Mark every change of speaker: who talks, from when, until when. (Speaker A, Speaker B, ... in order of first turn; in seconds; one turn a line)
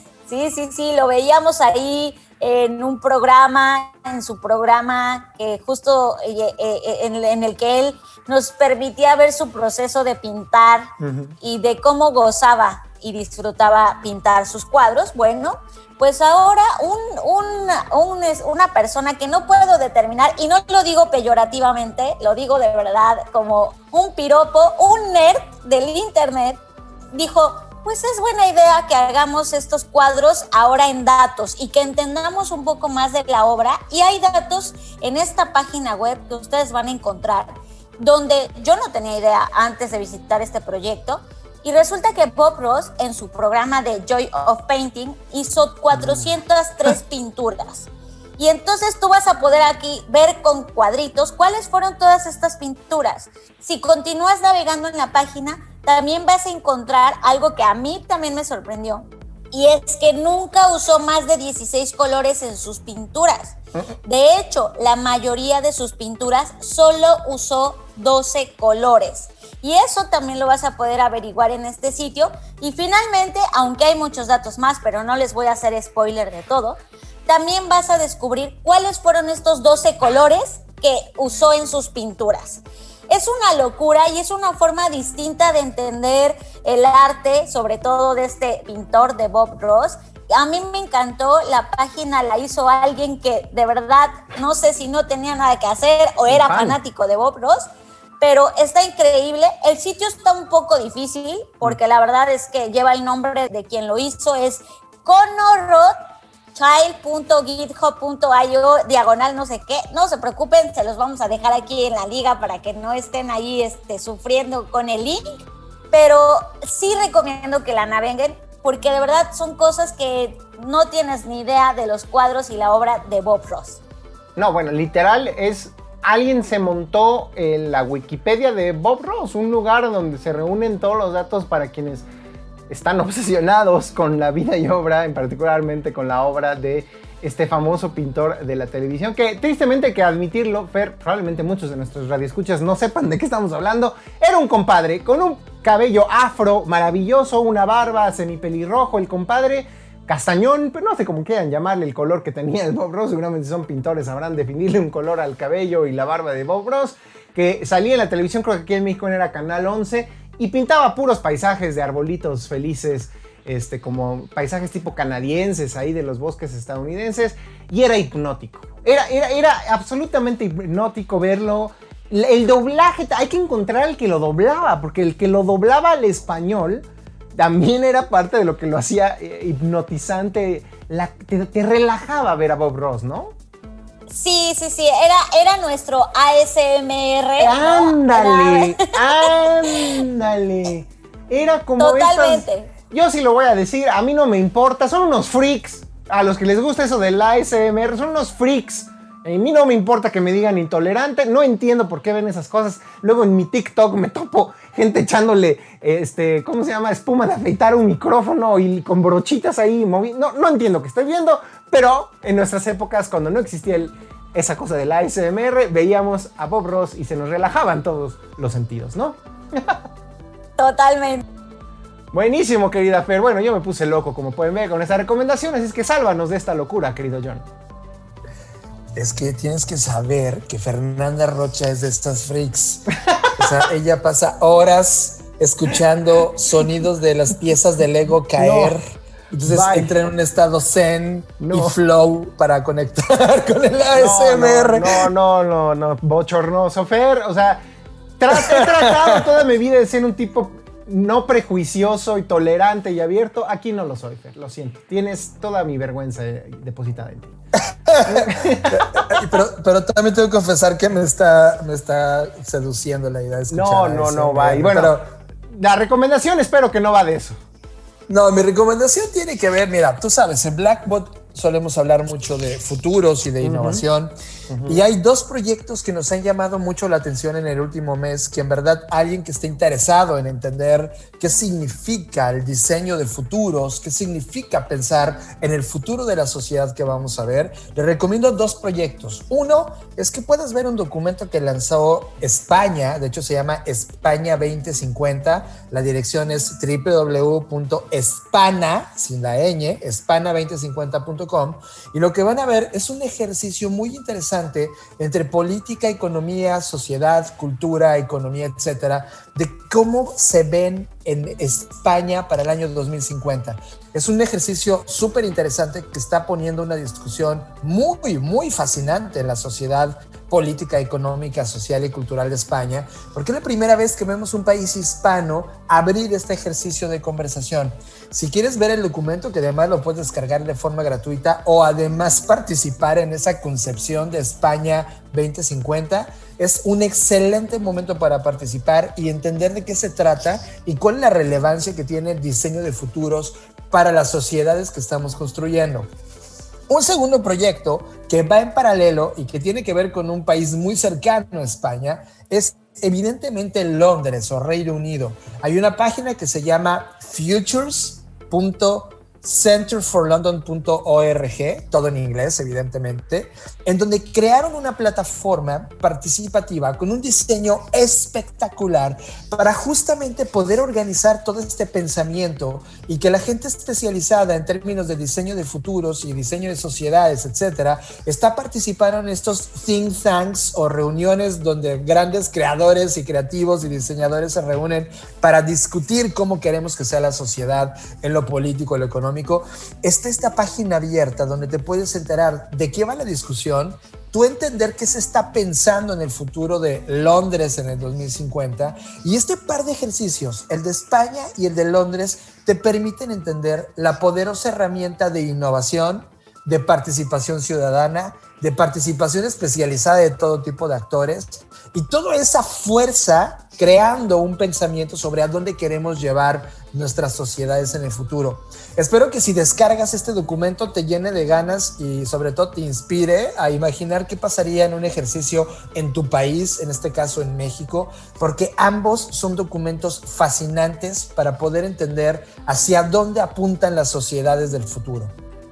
Speaker A: 0.3-10.9
Speaker B: 11.0-11.3
Speaker A: 11.4-26.6
Speaker A: 27.1-97.7
Speaker B: 96.3-96.8
Speaker A: 98.2-105.9
Speaker A: 106.5-115.2
Speaker A: 115.9-123.8
Speaker B: 124.4-132.1
Speaker B: 132.7-183.3
Speaker A: 184.1-189.8
Speaker B: 187.4-219.8
Speaker A: 191.8-192.7
Speaker A: 220.6-221.2
Speaker B: 222.1-227.4
Speaker C: 228.9-245.1
Speaker B: 238.4-238.8
Speaker B: 239.4-239.9
Speaker B: 241.4-241.8
Speaker B: 243.9-247.6
Speaker B: 248.2-257.3
Speaker C: 248.3-249.1
Speaker C: 257.9-265.1
Speaker B: 258.0-259.3
Speaker B: 263.5-264.9
Speaker B: 265.5-267.4
Speaker C: 268.1-274.1
Speaker B: 273.4-273.8
Speaker B: 274.5-274.8
Speaker C: 274.6-345.9
Speaker C: 346.7-435.1